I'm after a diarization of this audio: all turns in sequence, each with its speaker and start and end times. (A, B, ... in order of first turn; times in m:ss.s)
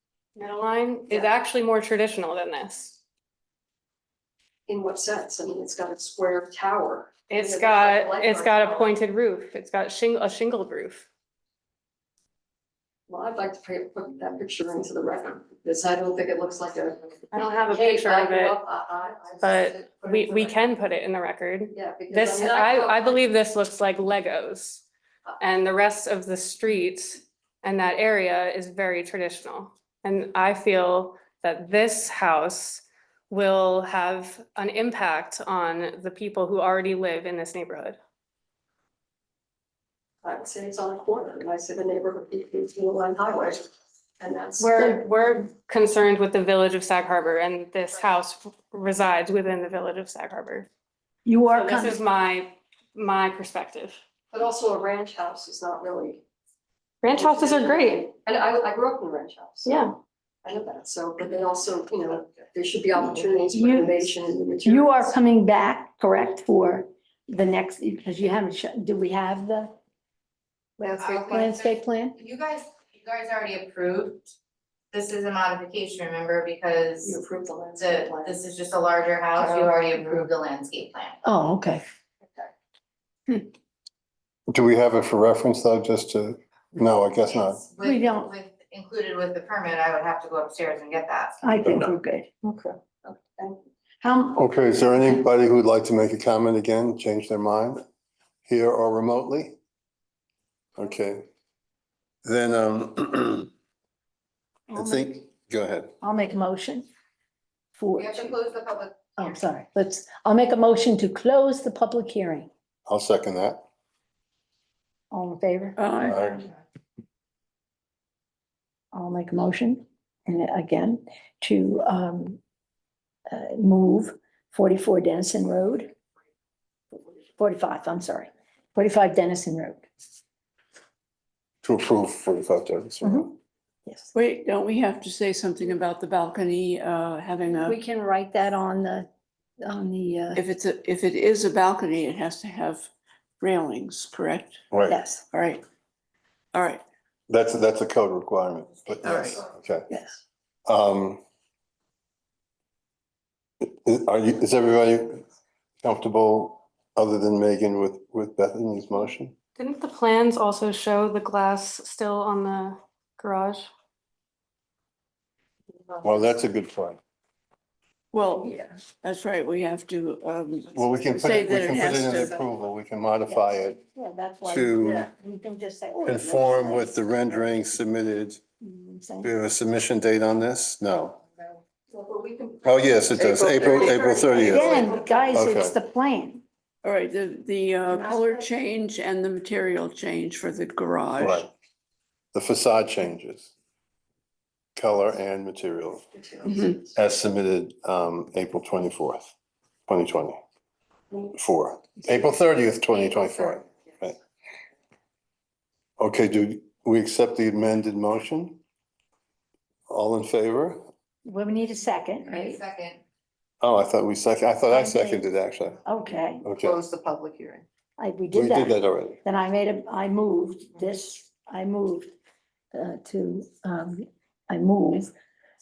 0:00.4-0:03.0 A
0:04.7-0:09.0 B
0:07.3-0:11.0 A
0:13.1-0:20.7 B
0:17.3-0:18.6 A
0:19.4-0:24.8 A
0:21.7-0:23.2 B
0:25.4-0:38.0 A
0:40.2-0:43.7 B
0:44.2-0:45.0 B
0:44.6-0:50.7 A
0:51.2-0:52.0 C
0:51.5-0:54.0 A
0:54.3-0:56.2 B
0:57.0-0:58.1 A
0:57.1-1:05.1 B
0:59.6-0:59.9 A
1:03.5-1:04.1 C
1:04.6-1:09.7 C
1:10.8-1:12.2 C
1:10.9-1:14.3 D
1:14.9-1:17.2 D
1:17.0-1:18.5 B
1:17.8-1:21.2 D
1:19.3-1:20.3 B
1:21.2-1:21.8 C
1:24.5-1:27.6 E
1:27.2-1:31.4 D
1:27.8-1:28.3 C
1:31.4-1:32.3 C
1:32.5-1:33.6 B
1:34.0-1:34.4 C
1:34.4-1:37.8 E
1:38.4-1:39.6 E
1:40.8-1:41.2 E
1:42.2-1:43.5 E
1:44.7-1:45.2 C
1:44.7-1:45.9 E
1:46.0-1:46.9 C
1:47.7-1:48.4 C
1:48.0-1:49.2 D
1:49.2-1:52.5 C
1:52.9-1:53.6 E
1:55.1-1:55.9 C
1:55.8-1:56.2 F
1:56.0-1:56.4 E
1:58.9-2:02.4 C
2:03.3-2:05.9 C
2:07.4-2:09.8 C
2:11.6-2:13.3 E
2:13.0-2:13.3 C
2:14.1-2:17.8 F
2:17.6-2:19.1 C
2:19.6-2:20.4 C
2:20.4-2:22.9 F
2:23.4-2:24.7 F
2:24.7-2:25.0 E
2:24.9-2:25.2 C
2:25.3-2:25.6 F
2:26.5-2:26.8 F
2:27.3-2:29.9 E
2:29.0-2:29.4 F
2:29.9-2:30.2 C
2:30.7-2:31.2 E
2:33.6-2:35.2 E
2:35.8-2:39.3 E
2:39.6-2:43.7 A
2:46.0-2:47.0 E
2:48.1-2:52.4 F
2:50.7-2:53.8 E
2:53.3-2:57.5 C
2:54.4-2:55.1 E
2:56.0-2:58.4 E
2:58.6-2:59.3 C
2:59.2-3:01.2 E
3:01.9-3:05.4 B
3:02.6-3:05.8 E
3:04.4-3:06.4 C
3:06.8-3:11.4 F
3:08.0-3:08.4 C
3:11.2-3:11.5 E
3:12.3-3:13.5 E
3:14.8-3:16.1 E
3:16.4-3:16.8 F
3:16.9-3:19.3 E
3:19.9-3:20.4 E
3:21.3-3:24.2 E
3:26.0-3:28.6 E
3:29.9-3:30.8 E
3:31.2-3:32.6 C
3:32.2-3:33.0 D
3:33.6-3:35.8 E
3:34.7-3:35.3 C
3:35.8-3:36.5 C
3:36.4-3:36.8 E
3:36.6-3:37.6 D
3:38.0-3:42.1 C
3:38.3-3:39.2 E
3:42.7-3:45.1 C